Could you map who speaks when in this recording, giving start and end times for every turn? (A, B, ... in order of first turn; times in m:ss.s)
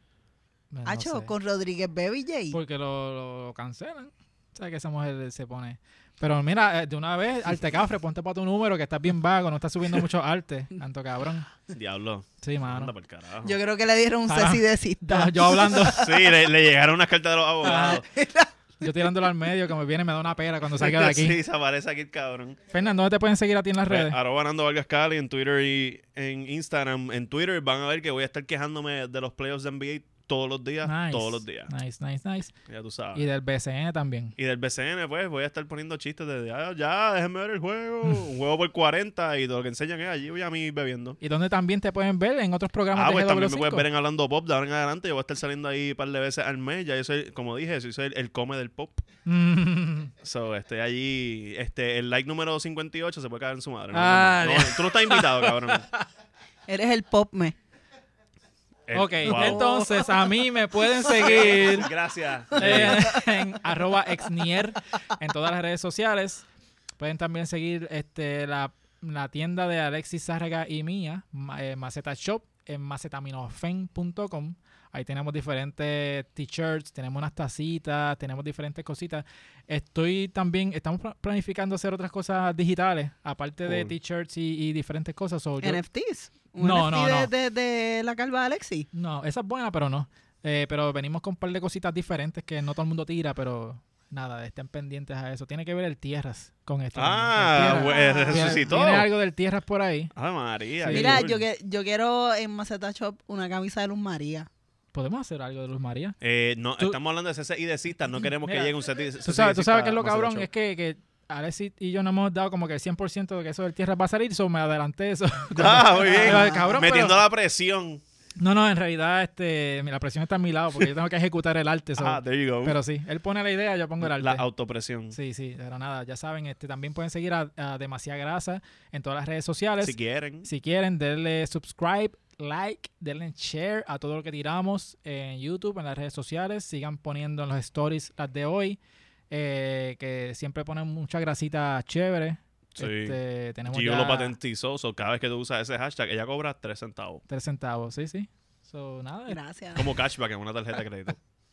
0:00.7-0:01.3 A
0:00.8-0:02.6 B
0:02.5-0:11.5 A
0:11.7-0:13.6 C
0:12.4-0:12.9 A
0:13.4-0:16.4 B
0:14.3-0:16.2 A
0:15.9-0:18.0 C
0:17.6-0:18.0 A
0:17.6-0:18.5 B
0:18.8-0:21.4 A
0:20.8-0:22.6 C
0:22.7-0:24.2 A
0:23.9-0:31.7 C
0:30.8-0:32.5 A
0:32.7-0:33.2 C
0:33.2-0:34.4 A
0:34.4-0:41.2 C
0:41.2-0:43.9 A
0:42.9-0:49.0 C
0:49.3-0:50.1 A
0:50.2-0:55.9 C
0:53.9-0:56.0 A
0:56.7-0:57.6 B
0:58.9-0:59.7 C
0:58.9-1:01.9 A
0:59.2-1:00.2 B
1:01.1-1:01.4 B
1:01.2-1:03.1 C
1:02.6-1:06.5 A
1:02.6-1:03.2 B
1:07.0-1:25.8 A
1:23.6-1:23.9 C
1:25.6-1:28.9 B
1:26.6-1:27.3 A
1:28.9-1:40.1 A
1:37.0-1:39.1 C
1:37.7-1:38.7 B
1:40.1-1:41.4 C
1:40.8-1:41.2 A
1:40.9-1:44.5 B
1:44.9-1:46.2 A
1:46.2-1:50.5 C
1:48.4-1:57.2 A
1:55.5-1:58.0 C
1:56.0-1:56.9 B
1:58.4-2:04.4 A
2:02.0-2:02.8 C
2:04.0-2:05.2 C
2:05.1-2:18.8 A
2:09.8-2:10.5 C
2:19.3-2:24.3 A
2:22.8-2:27.2 C
2:27.3-2:29.4 A
2:29.3-2:30.0 B
2:29.8-2:31.2 C